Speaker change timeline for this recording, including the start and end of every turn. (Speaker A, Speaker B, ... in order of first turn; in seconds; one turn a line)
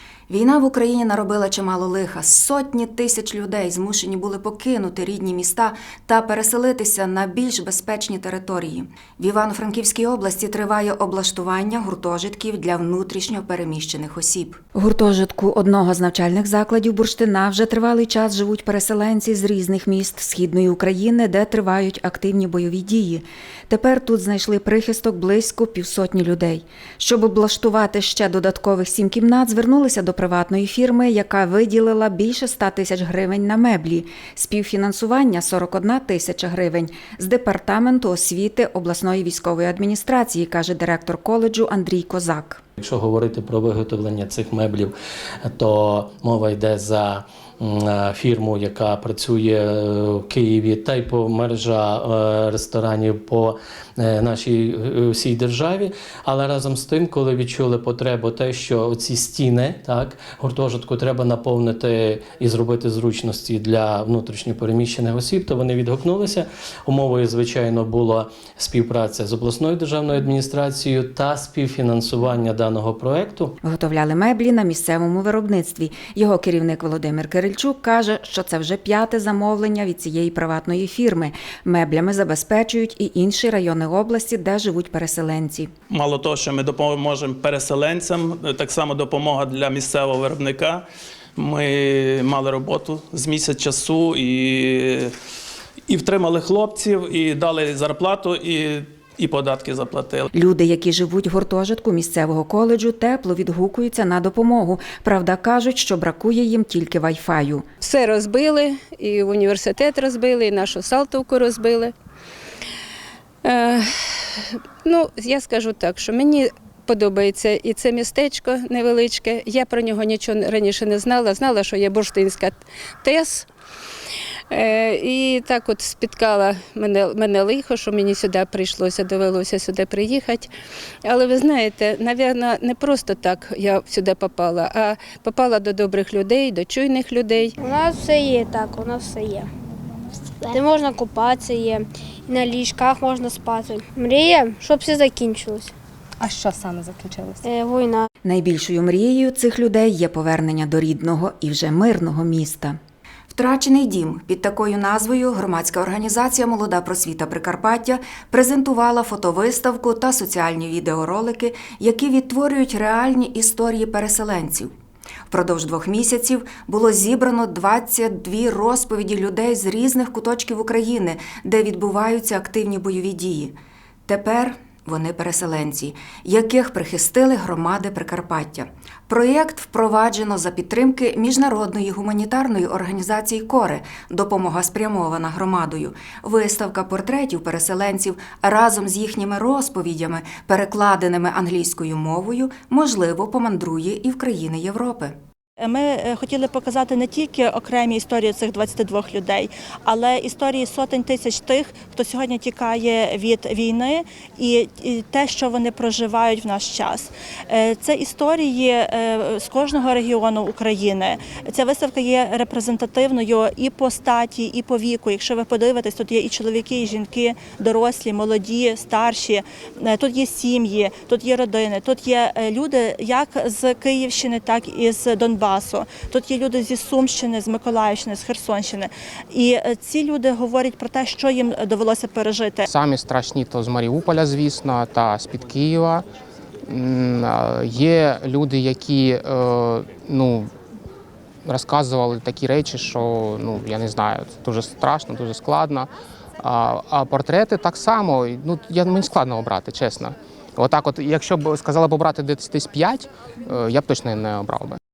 Speaker A: 0.3-42.6
Speaker B: 42.8-73.5
Speaker A: 73.6-85.7
Speaker C: 85.9-90.8
Speaker C: 91.4-95.1
Speaker C: 95.9-100.3
Speaker A: 100.3-107.7
Speaker D: 107.8-111.9
Speaker D: 113.4-113.9
Speaker D: 114.9-123.3
Speaker D: 124.5-130.5
Speaker B: 126.0-126.8
Speaker D: 131.1-137.5
Speaker E: 137.6-139.5
Speaker E: 140.4-145.7
Speaker E: 147.4-148.1
Speaker A: 148.2-152.8
Speaker A: 153.3-164.7
Speaker A: 165.3-195.2
Speaker F: 195.6-232.7
Speaker G: 232.7-236.1
Speaker G: 236.7-240.5
Speaker G: 241.5-245.9
Speaker G: 246.4-254.8